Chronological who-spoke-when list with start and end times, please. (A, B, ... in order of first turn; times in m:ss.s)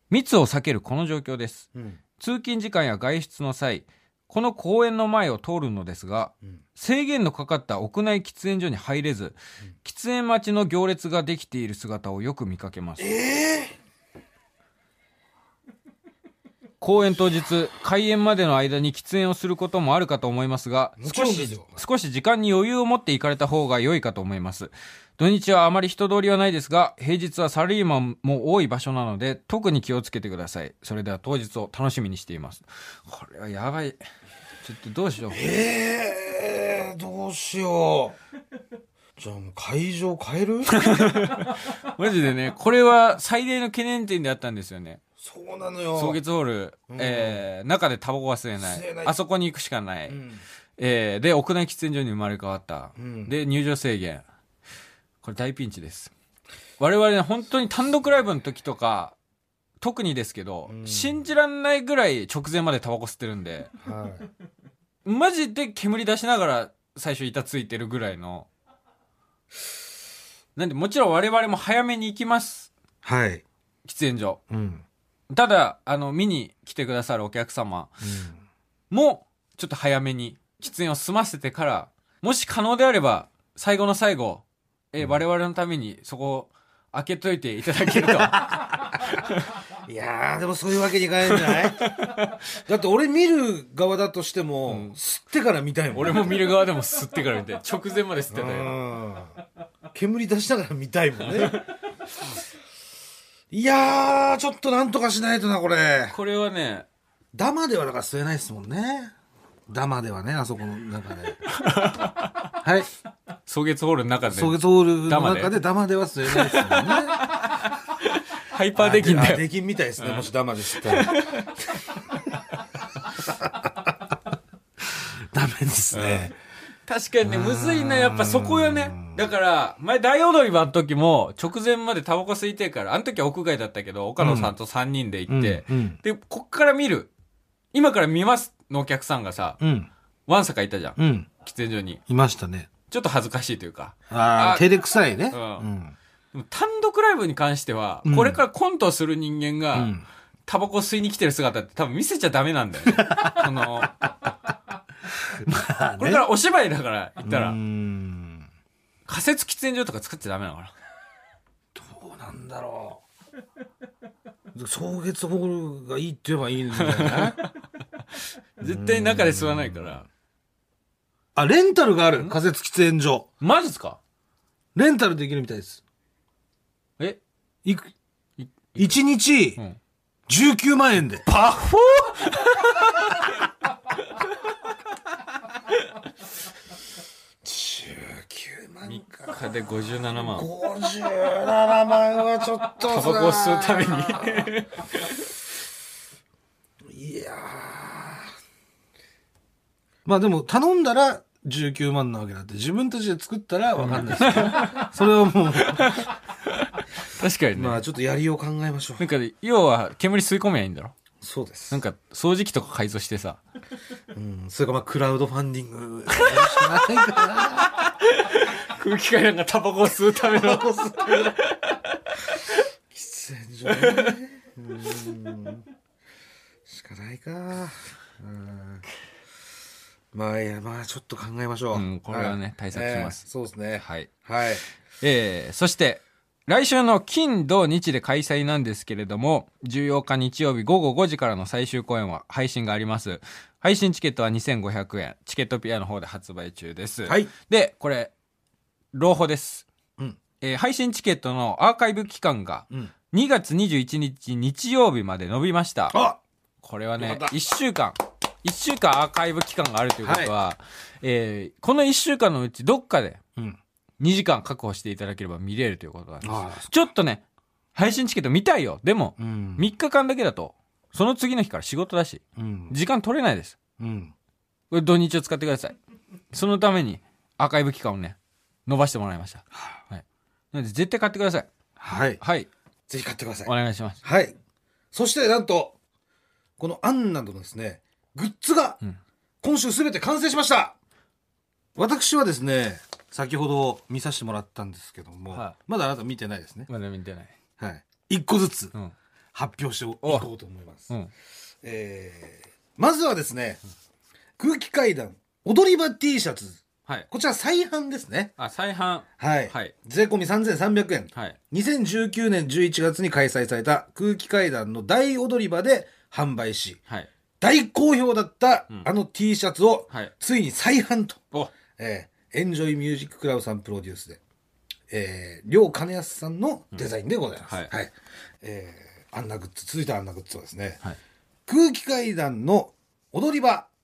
0:00.1-0:13.1 A
0:01.7-0:02.0 B
0:13.0-0:13.8 B
0:16.8-0:34.0 A
0:21.0-0:21.8 B
0:34.6-0:35.4 A
0:35.3-0:38.2 B
0:39.2-0:41.4 B
0:40.7-0:45.0 A
0:45.2-0:46.2 B
0:45.9-0:50.2 A
0:46.9-0:47.4 B
0:48.6-0:49.1 B
0:50.1-0:50.4 B
0:50.8-0:54.2 A
0:53.0-0:53.3 B
0:55.2-0:56.1 A
0:56.8-0:59.2 A
0:59.8-1:03.7 A
1:00.7-1:01.2 B
1:03.8-1:04.3 B
1:05.0-1:08.5 A
1:10.6-1:12.7 A
1:13.0-1:13.4 B
1:13.8-1:14.4 A
1:14.5-1:14.8 B
1:15.3-1:18.0 A
1:18.0-1:18.4 B
1:18.9-1:29.6 A
1:27.8-1:29.2 B
1:29.8-1:32.0 B
1:31.2-1:32.4 A
1:32.6-1:36.4 B
1:34.7-1:35.0 A
1:35.9-1:38.8 A
1:38.3-1:39.3 B
1:39.9-1:41.6 B
1:41.3-1:41.7 A
1:43.5-1:46.2 B
1:46.1-1:46.9 A
1:47.3-1:49.1 B
1:49.7-1:51.4 B
1:51.4-1:52.5 A
1:52.4-1:52.9 B
1:53.4-1:55.6 A
1:54.3-1:57.3 B
1:56.2-1:59.4 A
1:58.8-2:01.4 B
2:00.0-2:02.4 A
2:03.3-2:03.7 B
2:04.9-2:06.3 B
2:05.9-2:06.3 A
2:06.8-2:17.1 A
2:07.2-2:09.2 B
2:14.2-2:14.5 B
2:15.3-2:16.0 B
2:17.7-2:19.6 A
2:19.6-2:19.9 B
2:20.3-2:22.0 A
2:21.0-2:21.3 B
2:22.1-2:22.7 B
2:22.9-2:24.6 A
2:24.1-2:25.9 B
2:25.3-2:25.6 A
2:26.3-2:34.1 A
2:28.0-2:28.4 B
2:29.7-2:30.0 B
2:32.8-2:34.3 B
2:35.2-2:36.3 B
2:36.0-2:37.6 A
2:37.2-2:38.5 B
2:39.0-2:40.7 A
2:41.7-2:43.0 B
2:44.5-2:47.4 B
2:46.7-2:47.5 A
2:48.6-2:50.0 A
2:48.6-2:49.9 B
2:51.3-2:53.3 B
2:53.4-2:54.0 A
2:54.7-2:55.8 B
2:57.6-2:57.9 B
2:58.4-2:59.0 A
2:58.8-2:59.6 B
3:00.3-3:01.2 B
3:01.3-3:03.3 A
3:07.4-3:09.4 B
3:08.8-3:10.5 A
3:10.2-3:14.5 B
3:12.8-3:15.2 A
3:16.9-3:18.3 B
3:20.0-3:26.0 B
3:23.8-3:24.9 A
3:25.6-3:27.8 A
3:27.5-3:29.1 B
3:29.0-3:30.9 A
3:31.2-3:31.8 B
3:31.7-3:33.4 A
3:34.1-3:37.8 B
3:36.1-3:42.6 A
3:40.2-3:41.4 B
3:42.9-3:45.6 B
3:43.7-3:44.2 A
3:46.6-3:48.8 B
3:50.1-3:54.6 B
3:51.7-3:53.2 A
3:53.8-3:54.1 A
3:55.0-4:08.1 A
4:07.0-4:07.3 B
4:08.9-4:09.6 A
4:10.4-4:16.0 A
4:15.9-4:16.2 B
4:16.6-4:23.2 A
4:17.0-4:17.3 B
4:20.0-4:20.3 B
4:24.0-4:27.2 A
4:26.2-4:26.7 B
4:27.7-4:33.6 A
4:29.2-4:29.6 B
4:32.4-4:32.7 B
4:33.8-4:34.1 B
4:34.7-4:35.8 A
4:36.3-4:41.5 A
4:41.8-4:42.2 B
4:42.2-4:42.5 A
4:42.9-4:43.5 B
4:43.4-4:44.0 A
4:44.0-4:44.4 B
4:44.9-4:45.8 B
4:46.6-4:48.8 B
4:49.4-4:50.7 B
4:51.8-4:56.7 B
4:56.7-4:57.3 A
4:57.6-4:58.7 B
4:59.3-5:00.9 B
5:01.6-5:03.6 B
5:04.4-5:08.3 B
5:08.4-5:09.7 A
5:09.2-5:16.8 B
5:17.4-5:21.2 B
5:21.8-5:24.2 B
5:24.9-5:30.8 B
5:31.5-5:33.7 B